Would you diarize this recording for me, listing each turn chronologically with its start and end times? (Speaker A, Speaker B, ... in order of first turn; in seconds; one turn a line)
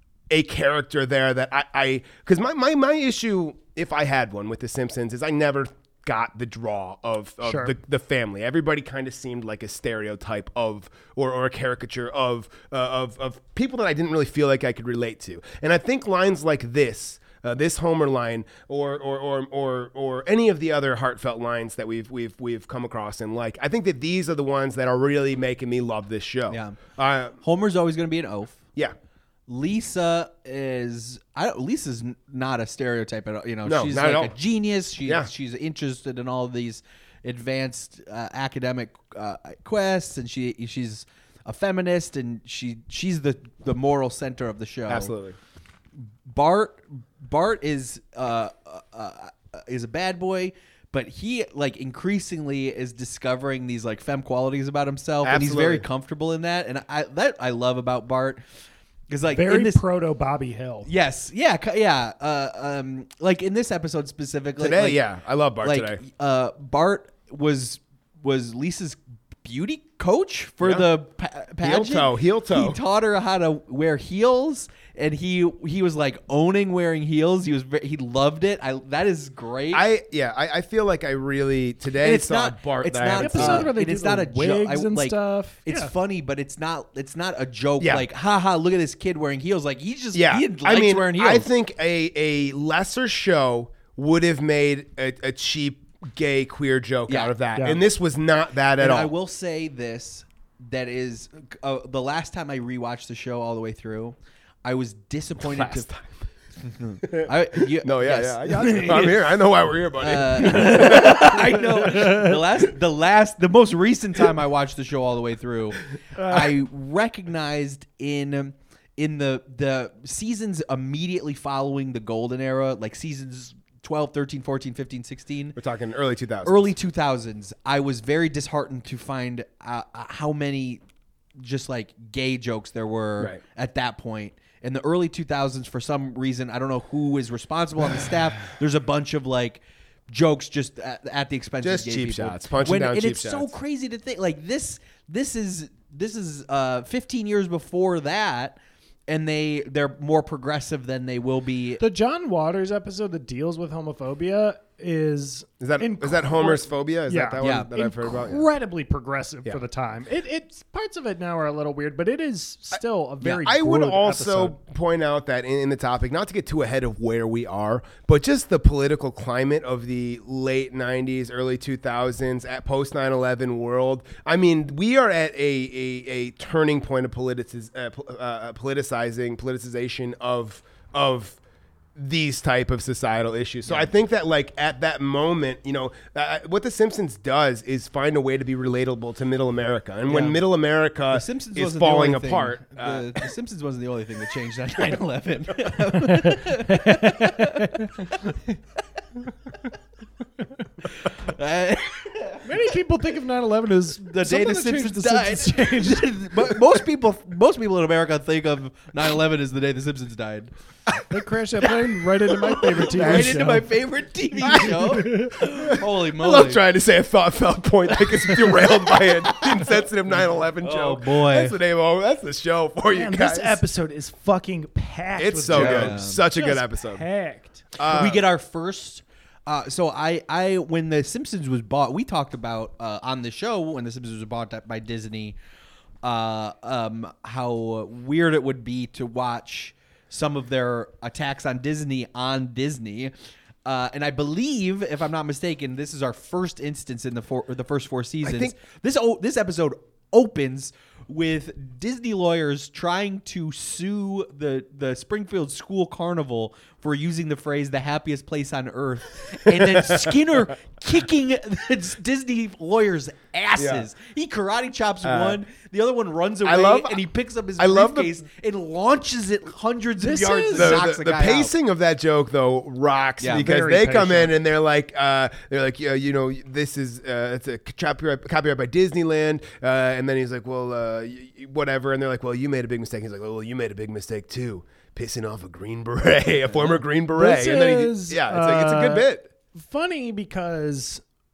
Speaker A: 0.3-27.4
Speaker B: 7.4-7.7
Speaker C: 26.5-26.8
Speaker C: 27.4-28.6
Speaker C: 29.5-45.1
Speaker A: 33.6-34.3
Speaker A: 44.9-45.4
Speaker C: 46.2-58.4
Speaker A: 55.2-55.8
Speaker C: 59.1-59.8
Speaker B: 59.3-60.9
Speaker C: 60.8-65.0
Speaker A: 64.6-66.0
Speaker C: 65.6-79.8
Speaker A: 70.6-70.9
Speaker A: 71.6-72.8
Speaker A: 79.7-83.7
Speaker C: 82.0-91.5
Speaker B: 83.2-85.9
Speaker A: 90.1-99.1
Speaker C: 97.1-97.3
Speaker B: 97.5-97.8
Speaker C: 98.8-105.9
Speaker A: 105.4-106.1
Speaker C: 106.6-109.3
Speaker A: 107.0-112.0
Speaker C: 110.0-125.6
Speaker B: 111.8-112.4
Speaker A: 116.2-116.5
Speaker A: 125.6-126.7
Speaker C: 126.4-130.8
Speaker C: 131.4-148.6
Speaker A: 141.6-143.5
Speaker C: 149.1-151.8
Speaker B: 151.8-164.6
Speaker A: 155.6-158.4
Speaker C: 157.4-157.7
Speaker A: 163.4-181.4
Speaker A: 181.9-193.3
Speaker C: 190.1-190.4
Speaker C: 191.1-198.3
Speaker B: 196.1-198.3
Speaker C: 200.8-202.5
Speaker B: 202.4-206.5
Speaker C: 204.0-210.5
Speaker B: 211.1-213.7
Speaker C: 212.2-216.6
Speaker A: 212.9-213.5
Speaker B: 214.4-215.3
Speaker A: 214.5-223.6
Speaker C: 217.9-221.5
Speaker B: 222.9-227.7
Speaker A: 225.2-227.1
Speaker C: 225.5-226.2
Speaker A: 227.8-228.2
Speaker C: 227.8-235.3
Speaker C: 236.0-243.1
Speaker C: 243.7-271.5
Speaker A: 248.2-248.5
Speaker A: 259.5-260.2
Speaker A: 263.6-263.8
Speaker A: 265.0-265.4
Speaker A: 266.4-267.0
Speaker A: 267.6-268.1
Speaker B: 270.0-270.8
Speaker A: 270.6-289.3
Speaker C: 273.2-273.5
Speaker B: 273.3-274.3
Speaker B: 287.1-291.0